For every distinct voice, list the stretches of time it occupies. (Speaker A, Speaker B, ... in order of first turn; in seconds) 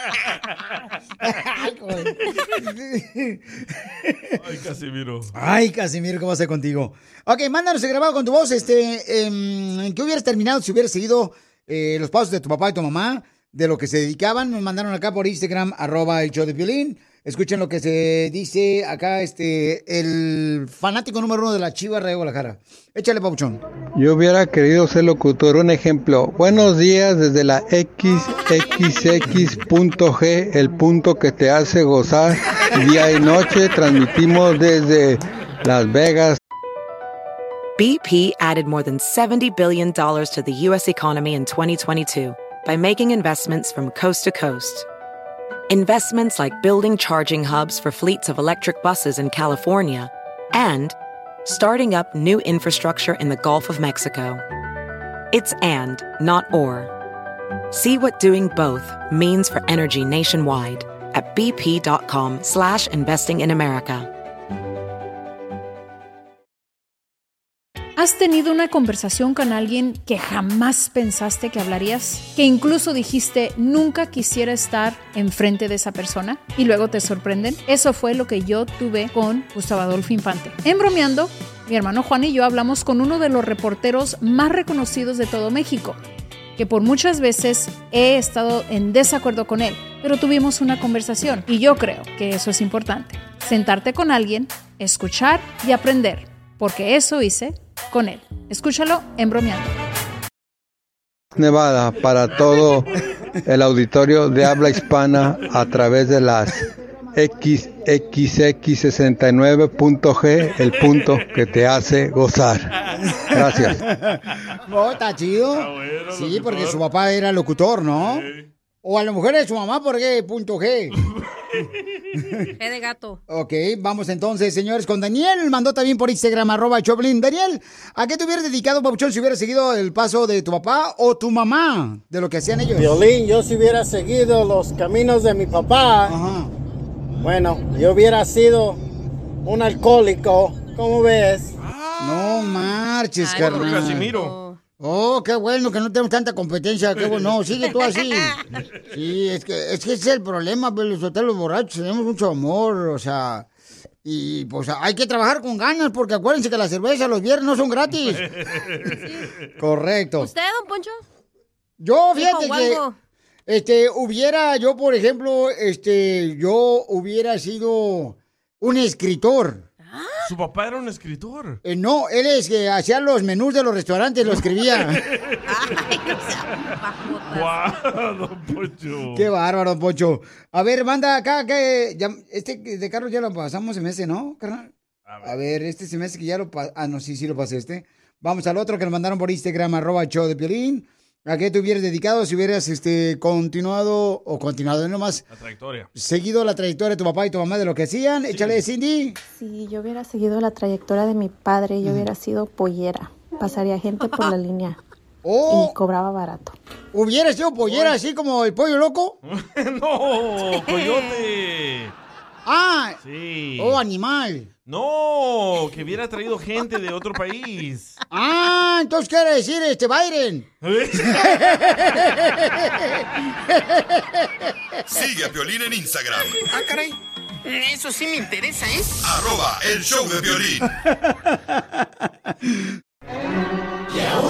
Speaker A: 1.2-4.3, 5.3-23.6, 113.9-118.3, 118.8-121.0, 123.3-132.9, 136.0-136.5, 142.0-144.1, 144.8-148.4, 148.9-153.5, 154.0-158.2, 159.6-160.3, 161.8-162.8, 163.5-169.7, 171.6-175.0, 179.1-184.7, 185.2-195.2, 195.9-199.2, 205.2-205.7, 206.9-209.2, 212.4-213.0, 213.6-214.5, 218.1-220.5, 221.0-224.5, 231.3-231.6
Speaker B: 4.4-5.3, 110.8-111.2, 112.9-113.2, 115.5-116.8, 117.9-118.5, 121.0-122.0, 141.6-142.7, 143.3-144.3, 158.0-159.2, 170.2-171.6, 174.4-175.8, 177.3-179.3, 185.1-185.3, 195.3-195.9, 198.3-198.6, 207.6-207.9, 209.2-211.9, 213.0-213.8, 214.7-218.0, 220.6-221.7
Speaker C: 24.0-36.4, 101.3-102.9, 103.5-112.7, 113.3-113.8
Speaker D: 37.8-44.9, 45.7-54.4, 55.3-56.9, 57.7-64.1
Speaker E: 68.0-86.0, 86.6-99.7
Speaker F: 122.6-123.2, 143.2-144.6, 158.9-159.2, 160.2-161.0, 162.1-162.9, 169.8-170.3, 175.5-177.7, 210.4-211.2
Speaker G: 132.8-136.1, 137.2-138.8, 139.4-141.6
Speaker H: 199.3-204.8, 205.5-206.6
Speaker I: 224.9-226.4, 229.0-230.7
Speaker J: 226.5-229.0